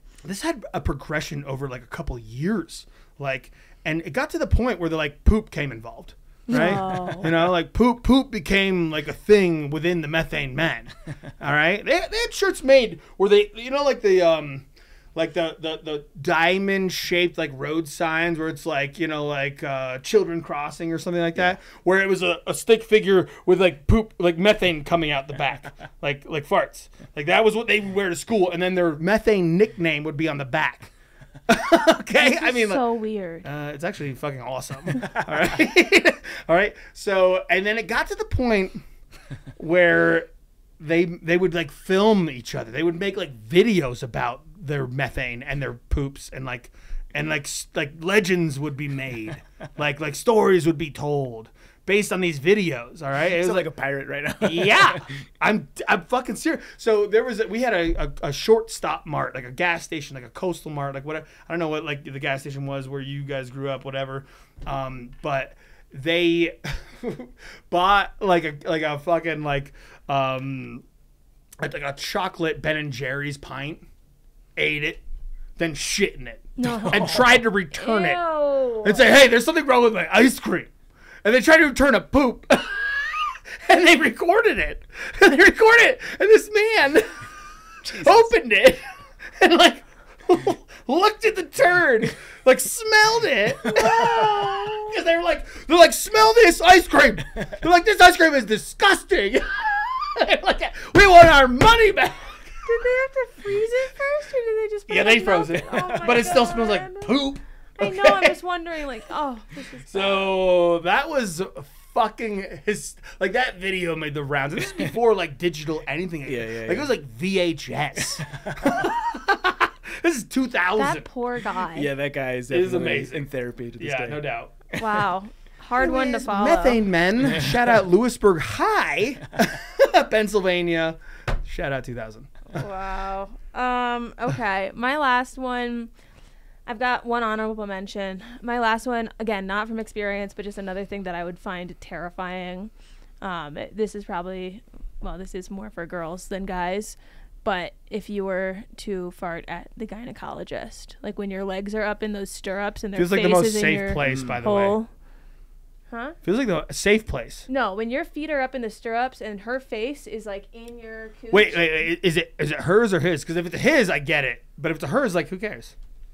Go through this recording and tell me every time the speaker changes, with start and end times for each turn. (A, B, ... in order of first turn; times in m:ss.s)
0:00.2-0:30.9 A
0:06.5-0:07.3 B
0:31.5-0:32.8 A
0:32.2-0:33.5 B
0:33.4-0:38.8 A
0:39.6-0:40.3 A
0:40.8-0:53.7 A
0:53.4-0:55.0 C
0:54.4-1:10.8 A
1:11.6-1:13.8 A
1:14.6-1:15.0 A
1:15.6-1:18.2 A
1:16.6-1:19.0 B
1:16.6-1:17.2 C
1:18.8-1:20.7 A
1:21.2-1:27.2 A
1:27.9-1:28.1 C
1:27.9-1:28.8 A
1:29.4-1:42.9 A
1:33.7-1:34.8 B
1:42.6-1:47.2 B
1:44.9-1:48.3 A
1:47.8-1:50.3 B
1:49.9-2:01.1 A
1:56.2-1:56.9 C
1:58.2-1:58.7 C
2:00.8-2:01.9 B
2:01.7-2:04.2 C
2:02.5-2:03.3 A
2:03.8-2:04.7 A
2:04.7-2:06.8 B
2:05.8-2:12.5 A
2:12.5-2:15.9 B
2:16.6-2:34.9 B
2:33.0-2:34.8 A
2:36.2-2:37.4 A
2:37.5-2:41.7 B
2:41.3-2:45.7 A